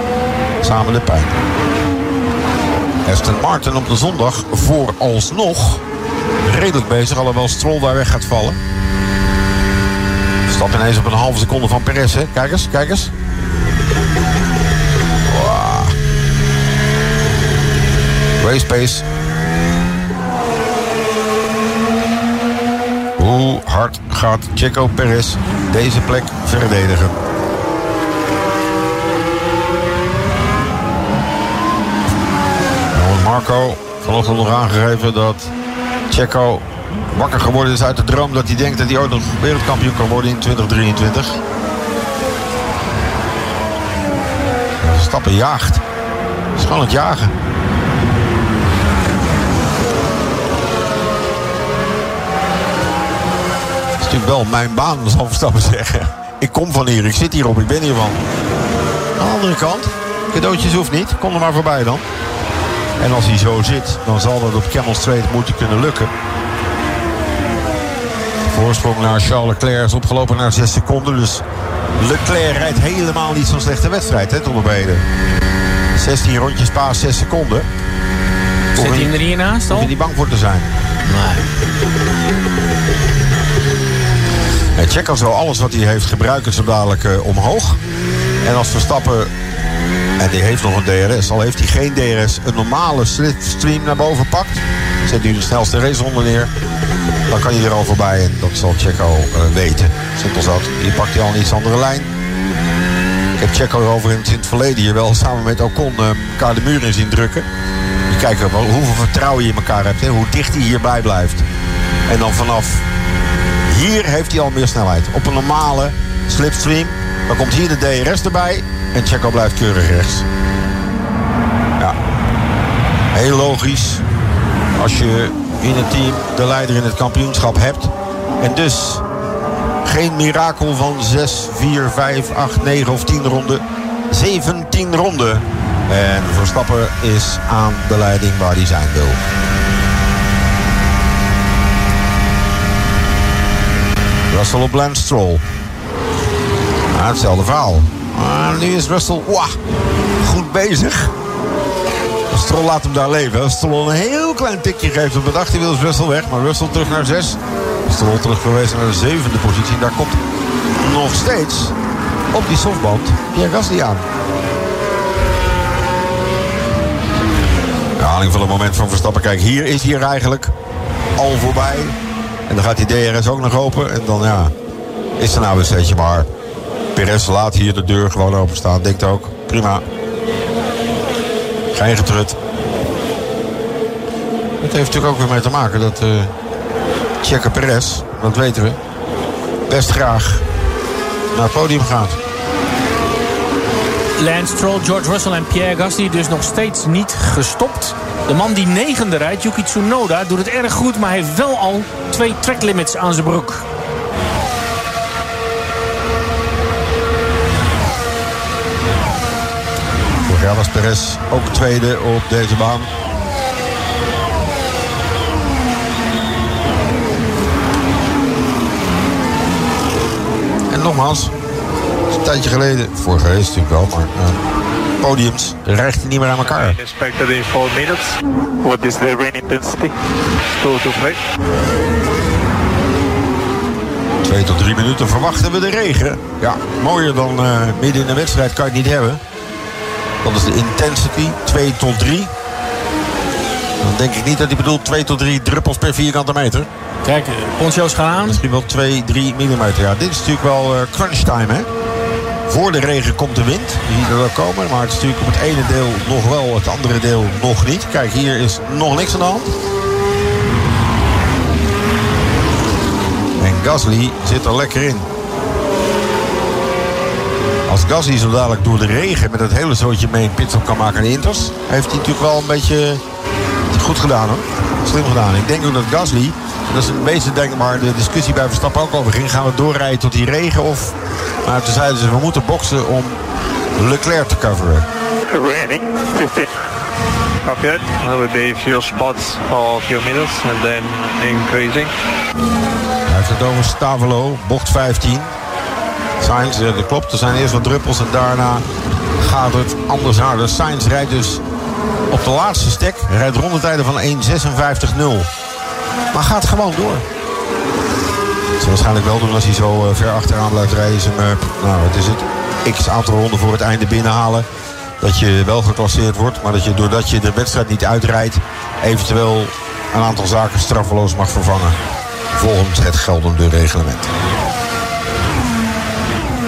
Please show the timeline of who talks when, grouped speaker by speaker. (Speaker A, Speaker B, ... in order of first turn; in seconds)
Speaker A: 0.6-1.4, 3.0-5.8, 6.4-8.6, 10.5-13.1, 15.3-15.9, 18.4-19.0, 23.2-27.2, 32.9-35.5, 36.1-41.4, 44.8-45.8, 46.5-47.3, 54.0-58.2, 59.2-62.0, 63.0-66.1, 68.5-71.4, 72.0-75.0, 75.9-77.7, 78.8-80.7, 84.8-87.8, 88.4-89.3, 90.2-96.5, 97.3-102.1, 103.3-107.5, 108.1-111.5, 112.1-112.8, 113.7-120.2, 123.1-124.0, 124.8-129.0, 129.8-139.2, 144.3-145.4, 146.9-149.6, 150.2-151.1, 152.3-160.2, 160.8-161.7, 162.3-164.1, 168.0-170.5, 171.2-171.9, 172.5-174.5, 175.2-176.3, 176.9-179.8, 181.7-182.4, 184.6-186.3, 187.2-188.8, 189.7-190.4, 191.3-192.2, 210.2-212.9, 220.7-221.3, 222.1-224.4, 225.0-226.8, 234.2-239.2, 240.2-242.3, 243.8-246.7, 248.2-251.7, 252.5-259.5, 263.4-265.1, 267.7-273.0, 273.7-283.2, 283.8-284.9, 293.1-295.3, 296.2-298.6, 299.2-301.4, 302.1-305.3, 306.1-307.1, 308.6-314.5, 315.0-321.8, 322.3-324.1
Speaker B: 78.7-79.9, 81.1-81.4, 194.2-203.6, 247.0-248.4
Speaker C: 226.4-229.9, 230.6-231.2, 285.3-286.5, 287.4-291.9